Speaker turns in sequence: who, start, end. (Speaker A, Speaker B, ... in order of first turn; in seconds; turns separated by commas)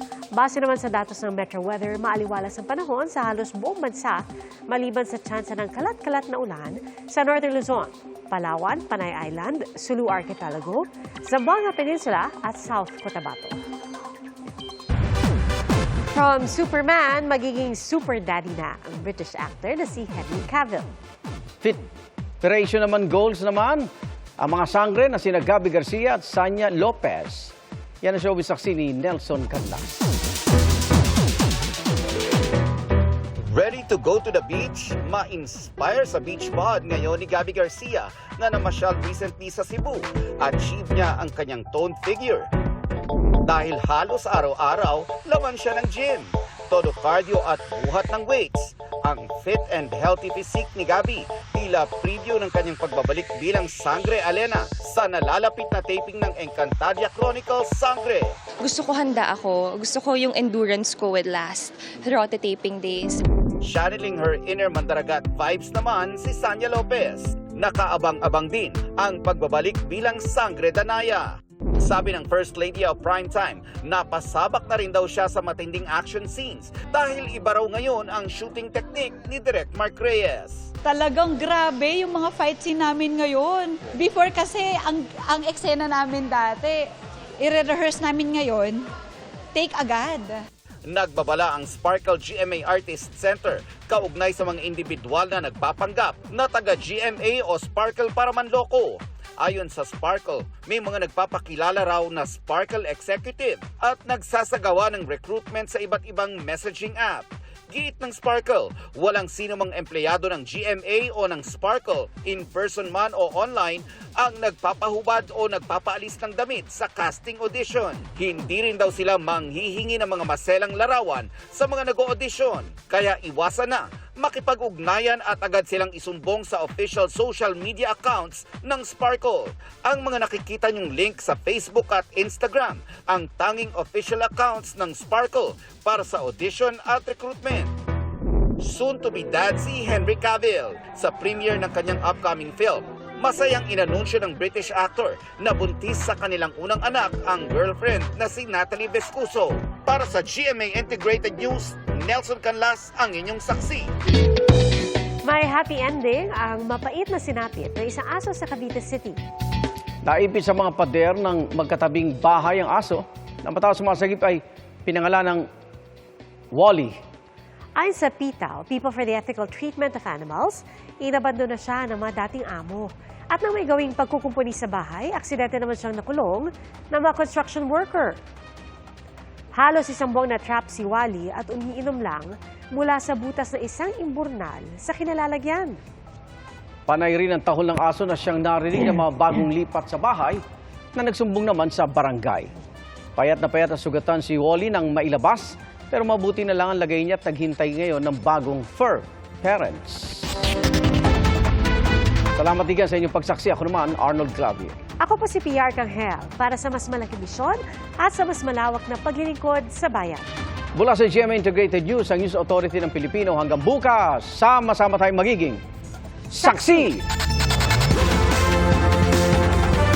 Speaker A: 0.3-13.6, Speaker A: 16.1-20.9, Speaker B: 22.4-23.9, Speaker B: 24.4-30.0, Speaker C: 33.5-42.5, Speaker C: 43.5-58.3, Speaker D: 58.6-63.2, Speaker C: 63.6-80.7, Speaker E: 80.8-86.8, Speaker E: 87.4-88.8, Speaker E: 89.5-90.4, Speaker C: 90.9-137.7, Speaker C: 138.6-153.9, Speaker A: 155.2-159.2, Speaker B: 160.1-165.4, Speaker B: 166.5-166.9, Speaker A: 167.8-178.2, Speaker A: 179.5-185.8, Speaker B: 186.9-190.4, Speaker B: 190.9-192.5, Speaker B: 193.2-200.3, Speaker B: 202.3-204.8, Speaker A: 205.0-210.3, Speaker B: 210.8-215.6, Speaker B: 216.3-217.0